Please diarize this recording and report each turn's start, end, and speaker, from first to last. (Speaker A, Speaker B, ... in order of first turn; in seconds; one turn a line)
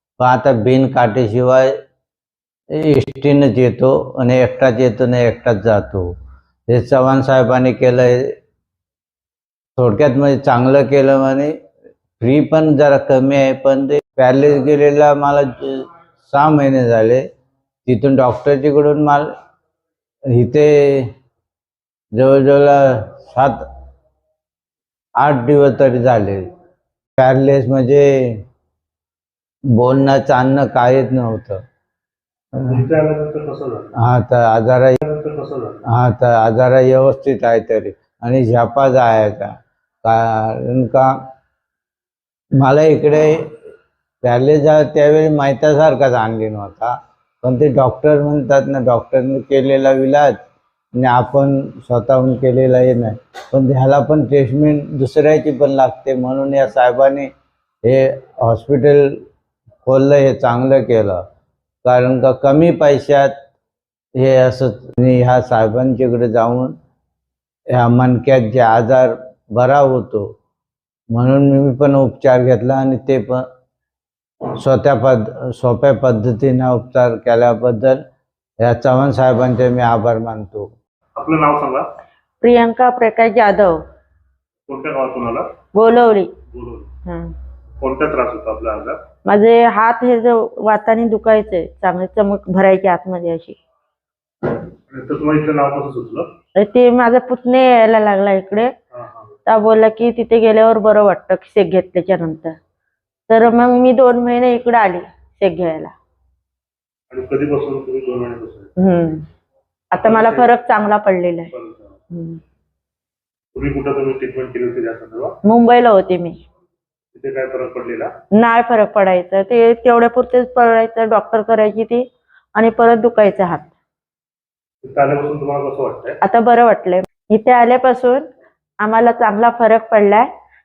Speaker A: 0.2-1.7
Speaker A: 2.8-6.1
Speaker A: 6.7-8.3
Speaker A: 9.8-11.5
Speaker A: 12.2-17.2
Speaker A: 17.9-19.3
Speaker A: 20.3-21.1
Speaker A: 22.1-23.6
Speaker A: 25.2-26.4
Speaker A: 27.2-28.4
Speaker A: 29.7-31.6
Speaker B: 32.6-34.0
Speaker A: 34.0-35.0
Speaker B: 35.0-35.8
Speaker A: 35.9-39.5
Speaker A: 40.0-41.1
Speaker A: 42.6-43.4
Speaker A: 44.2-50.3
Speaker A: 50.9-57.3
Speaker A: 57.8-59.0
Speaker A: 59.8-61.2
Speaker A: 61.8-63.3
Speaker A: 64.2-66.7
Speaker A: 67.7-70.3
Speaker A: 71.1-73.4
Speaker A: 74.5-78.0
Speaker A: 78.6-80.7
Speaker B: 81.2-81.9
Speaker C: 82.4-83.8
Speaker B: 84.7-85.5
Speaker C: 85.7-86.3
Speaker B: 86.5-86.9
Speaker C: 87.0-87.3
Speaker B: 87.8-89.0
Speaker C: 89.2-93.6
Speaker B: 94.9-96.3
Speaker C: 96.5-98.7
Speaker B: 98.9-99.3
Speaker C: 99.5-102.5
Speaker C: 103.3-105.9
Speaker B: 107.1-108.7
Speaker C: 108.8-109.2
Speaker C: 109.9-111.5
Speaker B: 110.0-110.5
Speaker B: 111.5-112.0
Speaker C: 112.1-112.4
Speaker B: 113.5-115.3
Speaker C: 115.4-116.4
Speaker B: 117.1-118.1
Speaker C: 118.3-122.0
Speaker C: 122.5-123.7
Speaker B: 124.8-126.2
Speaker C: 126.2-128.2
Speaker C: 128.8-130.3